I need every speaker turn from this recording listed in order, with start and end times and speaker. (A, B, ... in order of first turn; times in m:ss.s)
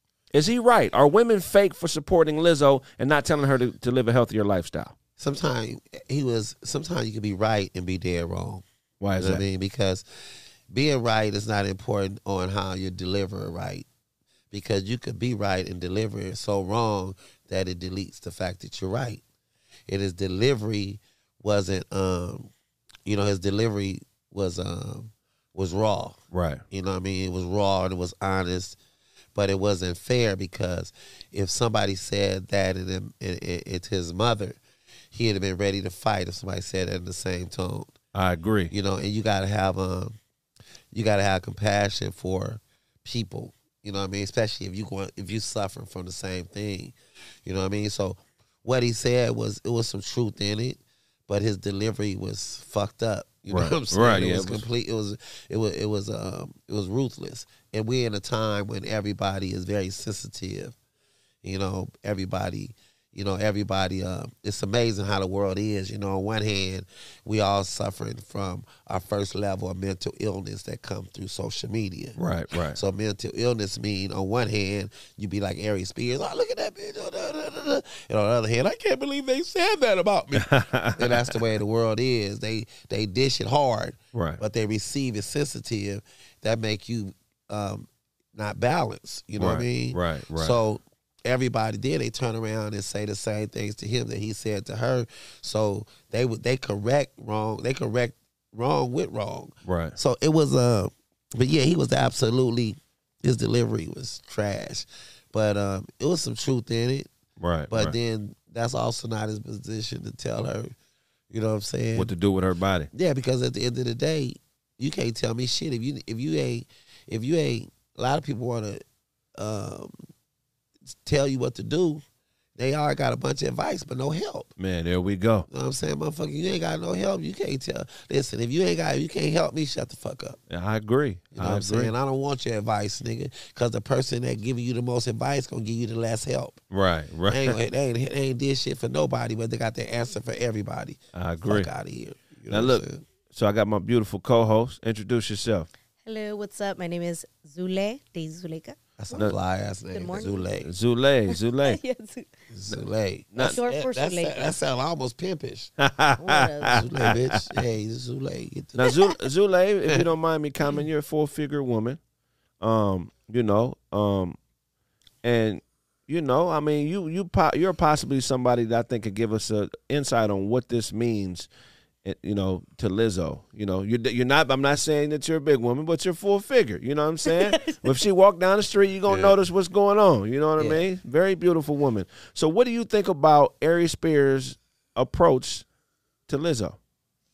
0:00.3-0:05.0 A
0:05.2-0:08.6 B
0:09.0-0:09.4 A
0:09.2-0:13.8 B
0:14.5-0:19.2 B
0:19.9-0:22.5 B
0:23.0-0:26.2 B
0:26.3-0:26.6 A
0:26.7-0:28.8 B
0:29.3-0:34.6 B
0:35.1-0:37.9 B
0:38.1-0:38.7 A
0:38.7-0:40.2 B
0:40.9-1:00.8 B
0:53.5-0:54.6 A
1:01.4-1:12.2 B
1:12.2-1:12.8 A
1:12.7-1:47.1 B
1:20.4-1:21.3 A
1:24.1-1:24.4 A
1:29.4-1:30.5 A
1:39.6-1:39.9 A
1:47.4-1:47.9 A
1:47.7-1:50.7 B
1:51.3-1:52.1 B
1:51.9-1:52.9 A
1:52.9-1:58.8 B
1:59.4-2:00.0 B
2:00.8-2:02.0 B
2:02.6-2:04.5 B
2:04.6-2:05.4 A
2:05.5-2:10.4 B
2:10.5-2:11.9 A
2:11.3-2:16.6 B
2:16.7-2:17.6 A
2:17.3-2:23.0 B
2:21.1-2:21.7 A
2:22.5-2:25.7 A
2:26.0-2:28.8 C
2:29.0-2:30.7 B
2:29.9-2:30.4 C
2:30.6-2:31.8 A
2:31.3-2:32.3 C
2:32.5-2:35.7 B
2:33.4-2:33.6 A
2:33.4-2:34.5 C
2:35.8-2:37.4 A
2:36.2-2:36.8 C
2:36.6-2:39.0 B
2:38.8-2:42.0 A
2:42.6-2:44.4 A
2:45.2-2:51.5 A
2:52.0-3:05.6 A
2:57.2-2:57.9 C
2:59.1-2:59.4 B
3:06.3-3:06.8 A